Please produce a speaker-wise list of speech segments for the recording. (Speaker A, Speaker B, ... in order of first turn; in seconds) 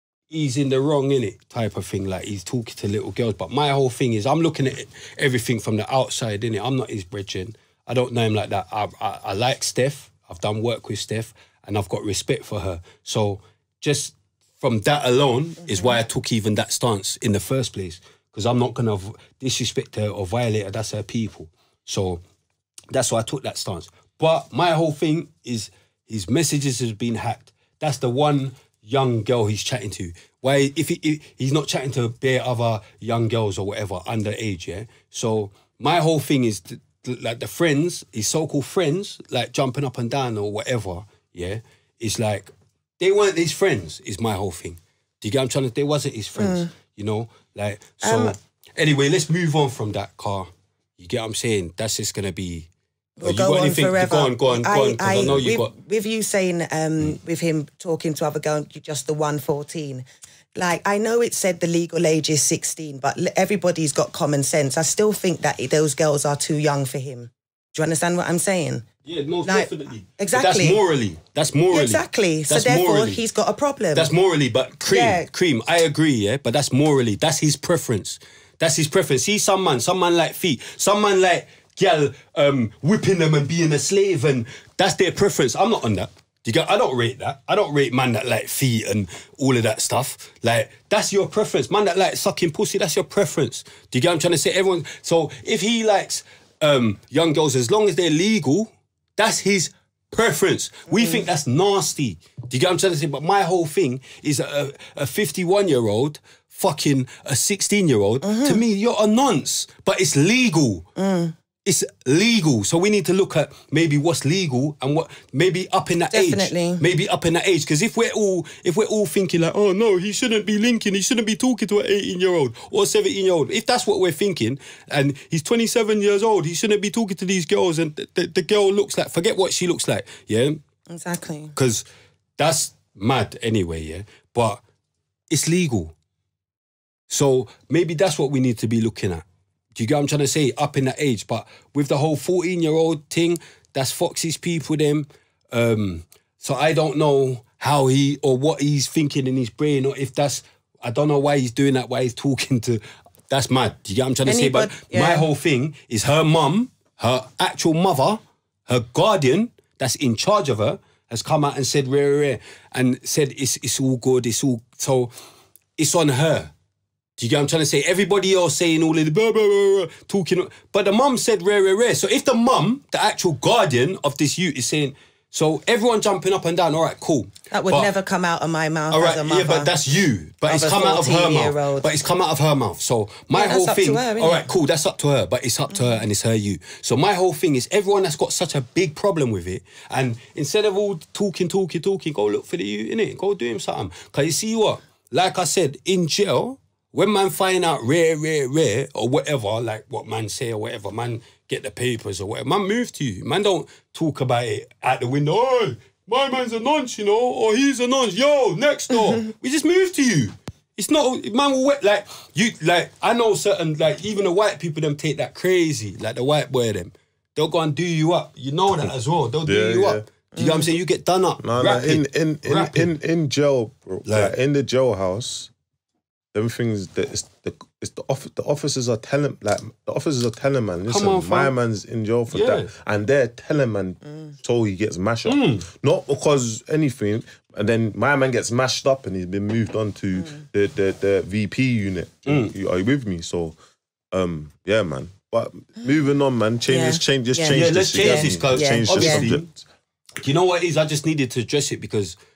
Speaker A: 0.3-22.2, 22.9-52.7, 53.2-55.7, 69.0-73.2, 73.9-110.8, 111.7-130.6, 131.6-131.8, 132.4-134.6, 135.3-135.9, 137.1-139.2, 139.8-165.1, 165.8-166.5, 167.2-177.9, 178.9-222.9, 224.1-224.3, 230.9-231.6, 232.3-232.7, 235.3-235.7, 242.3-242.5, 247.5-249.5, 250.2-252.2
Speaker B: 46.4-46.7, 48.0-48.4, 53.2-60.0, 60.5-68.8, 69.4-70.8, 71.7-74.1, 74.9-75.3, 100.9-101.2, 108.2-108.6, 111.0-111.4, 116.1-116.8, 130.9-131.5, 154.2-155.3, 177.5-179.7, 180.4-181.9, 183.3-184.5, 220.4-220.6, 246.7-249.3
Speaker C: 219.4-220.1, 221.4-225.5, 226.3-243.6, 244.1-249.7